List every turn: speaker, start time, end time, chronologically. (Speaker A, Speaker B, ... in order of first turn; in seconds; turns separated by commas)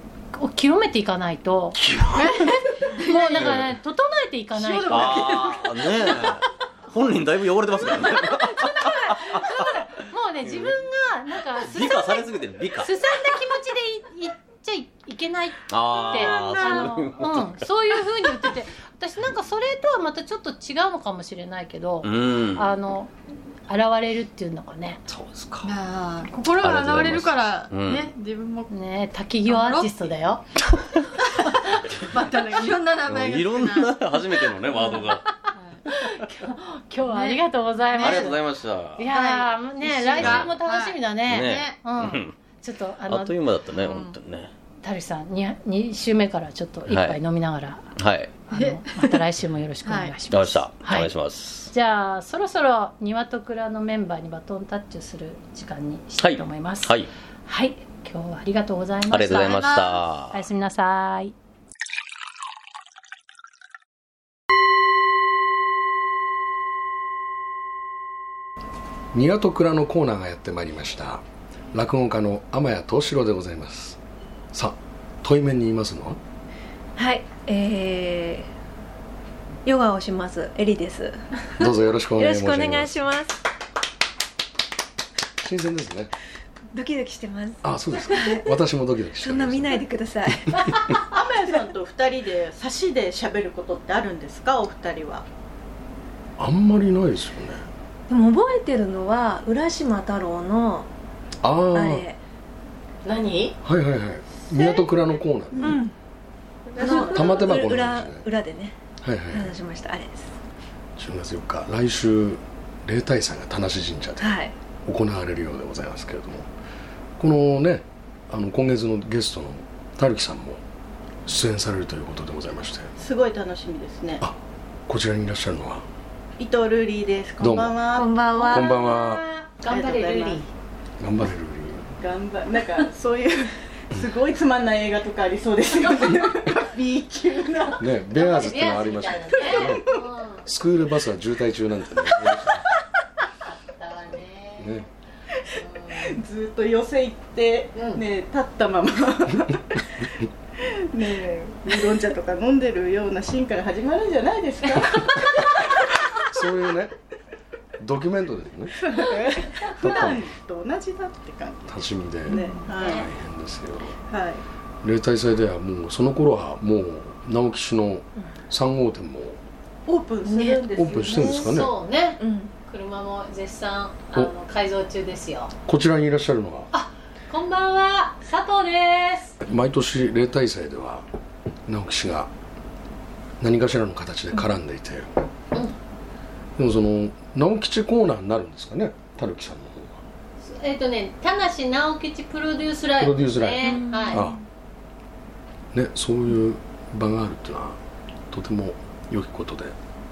Speaker A: 0.3-1.8, Speaker B: 1.8-2.6, Speaker C: 2.1-3.6, Speaker A: 3.0-5.5, Speaker B: 3.3-3.7, Speaker C: 4.5-6.4, Speaker B: 4.9-9.8, Speaker A: 8.8-23.1, Speaker B: 11.6-12.9, Speaker B: 15.7-17.6, Speaker C: 16.0-17.1, Speaker B: 22.0-22.7, Speaker A: 23.7-25.0, Speaker B: 25.1-25.7, Speaker C: 25.6-28.7, Speaker B: 26.6-28.1, Speaker A: 28.7-30.4, Speaker C: 29.4-30.1, Speaker B: 30.7-31.1, Speaker C: 31.3-35.8, Speaker B: 33.0-35.2, Speaker A: 35.0-35.3, Speaker A: 35.9-38.4, Speaker C: 37.1-37.4, Speaker C: 37.9-38.4, Speaker B: 38.0-39.1, Speaker A: 39.0-43.3, Speaker C: 39.1-41.8, Speaker B: 40.1-40.5, Speaker B: 41.2-42.3, Speaker B: 43.1-44.5, Speaker C: 43.7-44.1, Speaker A: 44.8-47.9, Speaker B: 46.9-47.2, Speaker B: 48.0-48.4, Speaker A: 48.5-51.1, Speaker C: 48.5-49.2, Speaker C: 49.8-50.1, Speaker B: 50.3-51.7, Speaker A: 51.7-59.8, Speaker B: 56.2-57.1, Speaker B: 59.1-60.4, Speaker C: 59.3-60.0, Speaker A: 60.3-61.3, Speaker D: 69.1-74.0, Speaker D: 74.5-76.2, Speaker E: 77.0-78.5, Speaker E: 79.6-83.4, Speaker D: 81.6-83.1, Speaker D: 85.4-86.1, Speaker E: 86.7-88.6, Speaker D: 87.6-89.9, Speaker E: 89.1-91.6, Speaker F: 91.0-95.2, Speaker D: 96.4-97.7, Speaker E: 98.1-100.9, Speaker D: 101.4-102.1, Speaker E: 101.7-102.2, Speaker A: 103.0-103.6, Speaker D: 103.6-105.8, Speaker E: 105.5-105.9, Speaker F: 106.8-107.4, Speaker E: 106.8-108.8, Speaker A: 106.8-107.0, Speaker D: 106.9-108.2, Speaker D: 109.0-109.5, Speaker E: 109.3-110.3, Speaker D: 111.0-116.5, Speaker E: 114.2-114.5, Speaker D: 117.2-120.6, Speaker D: 121.2-122.9, Speaker F: 123.0-124.2, Speaker D: 124.2-125.8, Speaker F: 126.4-128.1, Speaker D: 127.4-127.8, Speaker E: 127.9-128.8, Speaker A: 128.3-130.5, Speaker D: 128.5-129.2, Speaker F: 129.7-130.4, Speaker D: 131.0-131.9, Speaker F: 132.0-137.8, Speaker D: 137.8-139.9, Speaker A: 138.1-140.4, Speaker F: 139.4-140.0, Speaker D: 140.4-142.6, Speaker A: 143.4-144.8, Speaker D: 144.6-144.9, Speaker A: 145.6-146.1, Speaker F: 145.6-155.5, Speaker A: 147.7-148.0, Speaker D: 154.8-156.9, Speaker D: 157.8-158.8, Speaker F: 158.7-161.8, Speaker D: 159.8-160.2, Speaker D: 161.7-164.0, Speaker E: 162.3-162.7, Speaker F: 162.3-163.1, Speaker A: 162.6-163.1, Speaker F: 164.1-164.4, Speaker D: 164.8-169.4, Speaker F: 169.9-171.5, Speaker E: 170.2-171.5, Speaker D: 170.8-171.7, Speaker A: 170.8-175.5, Speaker E: 172.2-172.5, Speaker D: 175.7-176.7, Speaker A: 176.7-179.4, Speaker D: 179.4-181.0, Speaker D: 181.7-182.3, Speaker D: 183.4-185.1, Speaker D: 186.6-190.0, Speaker A: 190.4-194.2, Speaker D: 193.0-194.4, Speaker E: 193.6-194.4, Speaker D: 195.7-197.8, Speaker D: 198.3-199.7